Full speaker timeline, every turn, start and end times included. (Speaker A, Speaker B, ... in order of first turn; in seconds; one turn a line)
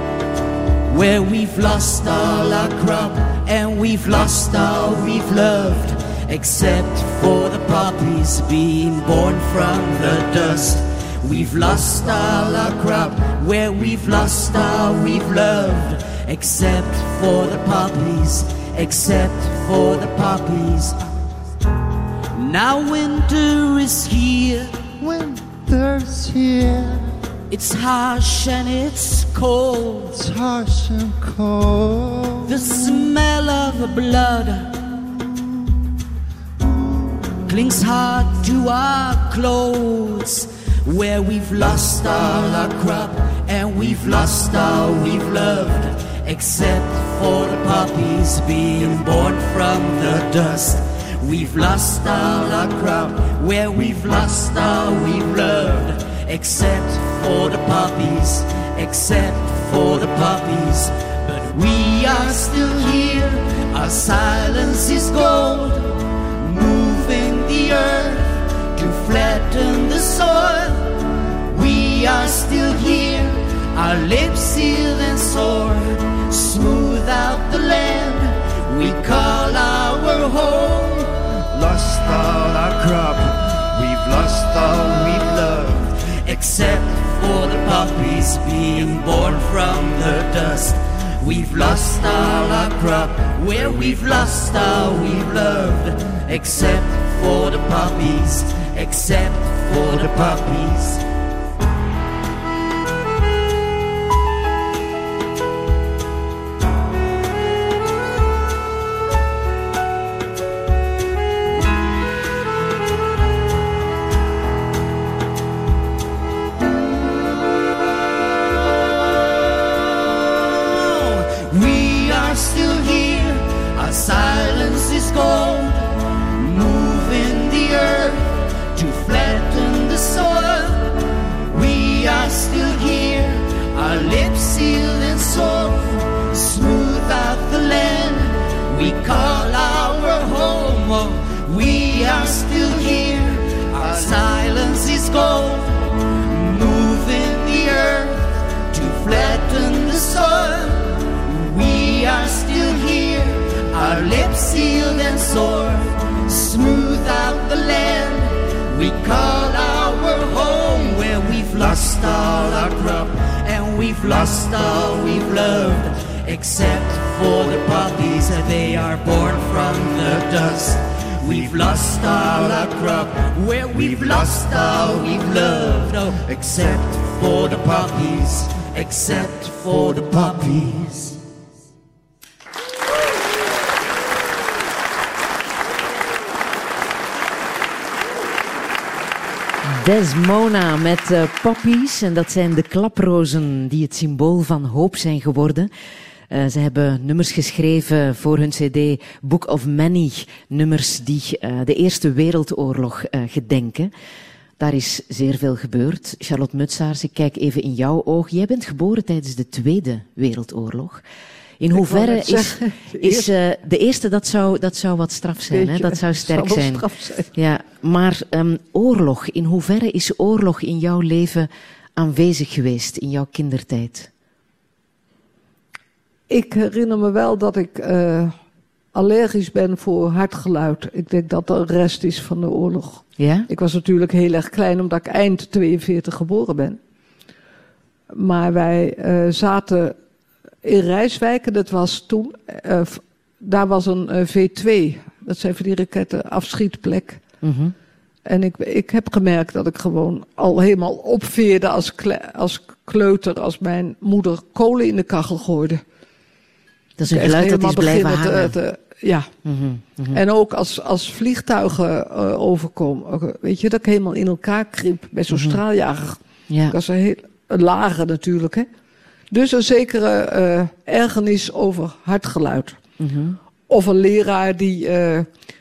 Speaker A: 0.9-21.0
Speaker A: 22.3-24.9
Speaker B: 25.1-27.0
Speaker A: 27.5-30.3
Speaker B: 30.3-32.3
Speaker A: 32.4-34.9
Speaker A: 37.5-101.0
Speaker A: 120.5-181.2
Speaker C: 189.6-195.7
Speaker C: 196.3-203.9
Speaker C: 204.6-211.0
Speaker C: 211.6-224.1
Speaker D: 211.7-213.3
Speaker D: 215.5-217.3
Speaker D: 226.3-228.3
Speaker D: 228.9-236.8
Speaker C: 233.2-233.5
Speaker D: 238.1-239.9
Speaker D: 240.6-247.2
Speaker C: 247.4-247.8
Speaker D: 248.2-255.8
Speaker C: 257.0-258.6
Speaker D: 257.1-259.3
Speaker C: 259.4-260.2
Speaker D: 260.1-266.2
Speaker C: 265.3-265.6
Speaker C: 266.5-266.8
Speaker D: 266.7-268.7
Speaker D: 269.3-272.8
Speaker C: 273.0-273.4
Speaker D: 273.7-275.3